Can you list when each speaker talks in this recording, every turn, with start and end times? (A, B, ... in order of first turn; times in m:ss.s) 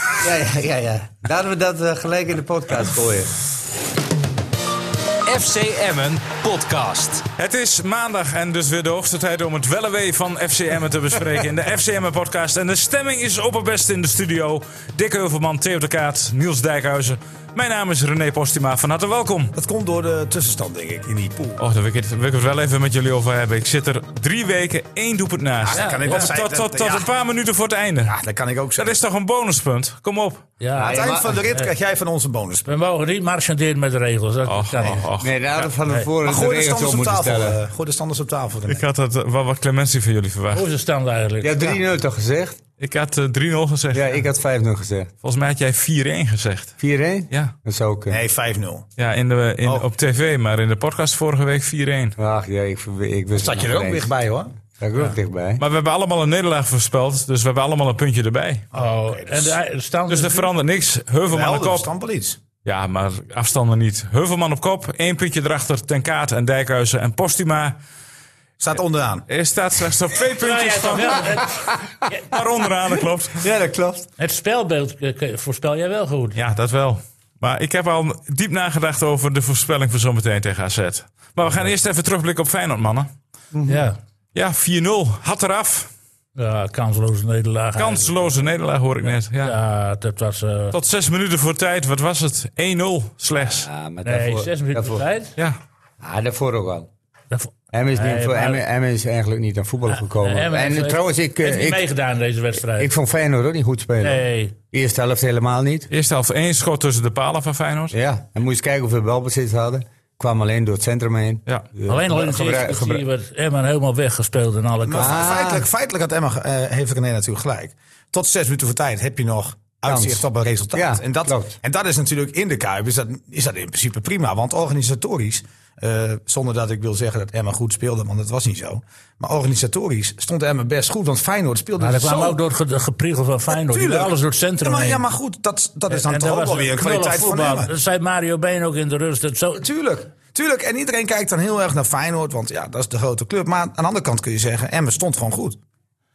0:00.2-0:03.3 A
0:05.3-0:07.3 B
0:07.4-0:19.5 C
0:19.6-0:21.6 D
0:21.6-0:28.2 C
0:25.6-0:27.1 D
0:25.7-0:26.2 E
0:28.0-0:29.0 D
0:28.8-0:30.5 C
0:30.6-0:31.7 E
0:30.8-0:31.4 A
0:30.9-0:32.7 D
0:32.6-0:35.1 E
0:34.5-0:35.4 C
0:35.2-0:37.6 A
0:36.2-0:38.8 D
0:38.7-0:40.7 C
0:40.5-0:41.6 E
0:41.4-0:42.6 A
0:42.8-0:44.2 C
0:43.9-0:45.1 A
0:45.2-0:47.5 C
0:46.8-0:48.2 A
0:48.1-0:48.9 D
0:49.0-0:52.2 C
0:52.2-0:54.2 A
0:53.4-0:54.5 D
0:54.8-0:55.6 A
0:55.6-0:58.6 C
0:58.7-0:59.6 D
0:58.7-1:00.5 E
1:00.1-1:01.9 C
1:01.3-1:02.4 D
1:02.6-1:07.8 C
1:08.6-1:09.3 D
1:09.3-1:13.4 C
1:10.4-1:12.2 E
1:13.0-1:14.1 A
1:14.2-1:16.4 E
1:16.4-1:23.1 C
1:23.5-1:23.8 A
1:23.7-1:24.0 E
1:24.3-1:25.9 C
1:26.4-1:28.3 E
1:27.8-1:29.6 C
1:29.4-1:30.8 E
1:30.7-1:33.7 C
1:33.4-1:35.1 A
1:34.0-1:35.4 E
1:36.0-1:36.9 A
1:37.3-1:38.6 E
1:37.7-1:41.9 A
1:39.9-1:42.9 E
1:42.7-1:45.9 A
1:44.0-1:44.5 E
1:45.9-1:48.0 C
1:47.9-1:53.0 A
1:51.9-1:55.3 E
1:54.8-2:12.4 D
1:55.0-1:55.7 A
1:59.9-2:01.6 A
2:11.8-2:15.0 E
2:13.5-2:17.7 D
2:15.9-2:19.6 E
2:19.6-2:25.6 D